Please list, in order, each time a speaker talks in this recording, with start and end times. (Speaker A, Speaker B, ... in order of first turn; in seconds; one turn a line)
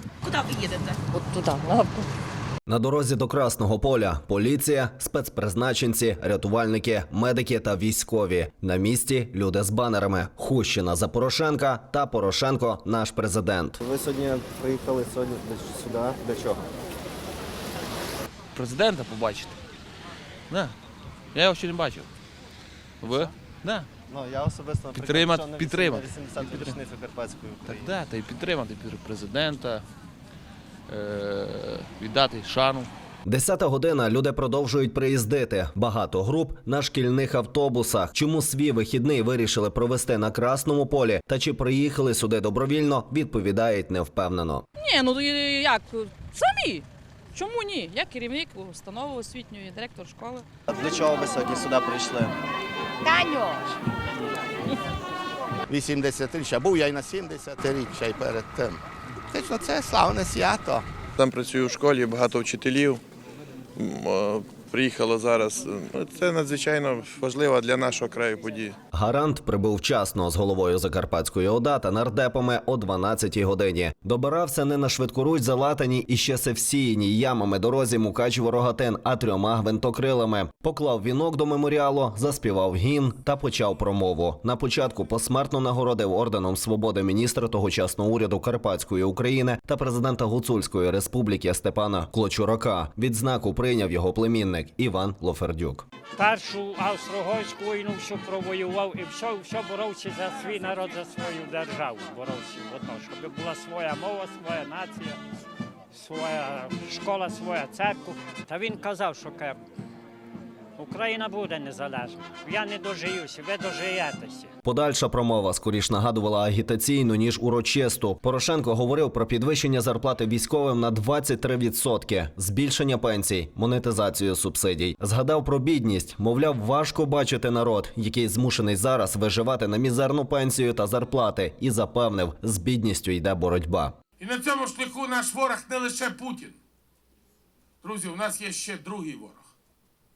Speaker A: 1.1-2.0
Speaker B: 2.7-13.9
Speaker C: 13.9-14.2
Speaker B: 14.4-14.8
Speaker D: 18.6-19.6
Speaker D: 20.5-20.8
Speaker D: 21.3-22.1
Speaker D: 23.0-23.9
Speaker B: 24.1-27.8
Speaker C: 24.6-25.8
Speaker D: 24.9-26.8
Speaker D: 27.6-29.9
Speaker D: 30.9-32.9
Speaker B: 33.2-44.7
Speaker A: 44.8-50.5
Speaker C: 51.0-52.1
Speaker A: 53.0-53.6
Speaker E: 55.7-60.9
Speaker F: 61.2-63.0
Speaker F: 63.8-68.8
Speaker B: 68.9-95.8
Speaker G: 96.2-105.2
Speaker G: 105.9-109.6
Speaker G: 110.8-114.5
Speaker B: 114.6-134.0
Speaker H: 134.2-136.6
Speaker H: 137.8-139.5